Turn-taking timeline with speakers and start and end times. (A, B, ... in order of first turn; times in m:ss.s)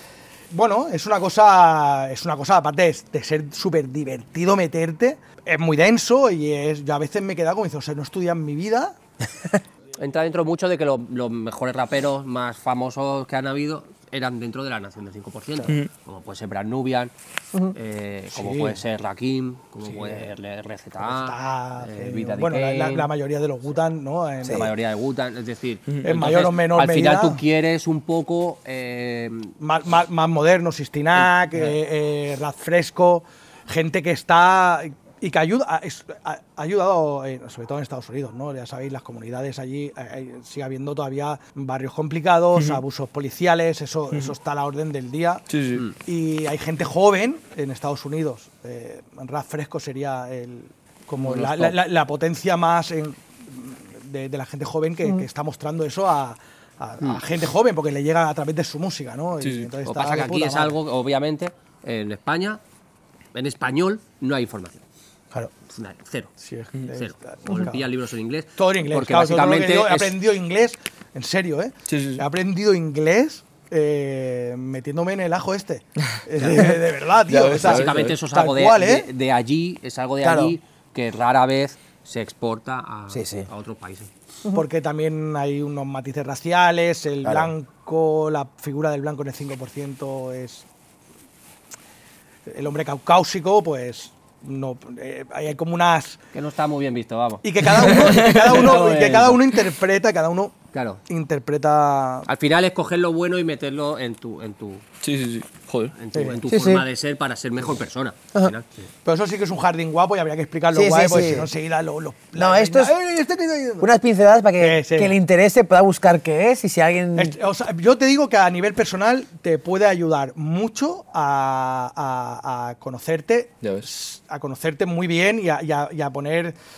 0:00.5-0:09.0 A
0:10.0-0:23.1 B
0:18.3-0:18.8 A
0:19.8-0:20.3 A
0:21.0-0:24.7 A
0:24.4-0:29.5 B
0:26.0-0:27.4 A
0:29.6-0:45.4 A
0:42.6-0:42.8 C
0:45.5-0:45.8 C
0:46.0-1:00.7 A
0:51.2-0:51.8 B
0:59.4-0:59.7 C
0:59.8-1:02.6 B
1:03.3-1:04.8 B
1:05.7-1:06.3 B
1:06.4-1:07.8 A
1:06.9-1:10.2 B
1:08.6-1:19.1 A
1:11.9-1:12.2 C
1:16.4-1:16.7 B
1:17.3-1:18.2 C
1:17.6-1:24.1 B
1:20.2-1:20.6 D
1:23.1-1:23.5 D
1:24.5-1:30.6 A
1:27.2-1:27.5 D
1:32.4-1:36.2 A
1:36.3-1:39.4 B
1:37.4-1:40.5 A
1:37.8-1:38.6 C
1:40.7-1:41.0 B
1:41.1-1:42.3 A
1:42.3-1:44.8 B
1:45.0-1:45.9 C
1:46.0-1:48.9 B
1:46.1-1:46.4 A
1:46.5-1:46.8 D
1:49.0-1:53.9 A
1:50.7-1:51.5 D
1:52.4-1:52.9 D
1:53.8-1:57.4 D
1:54.6-1:55.1 A
1:57.2-2:06.6 A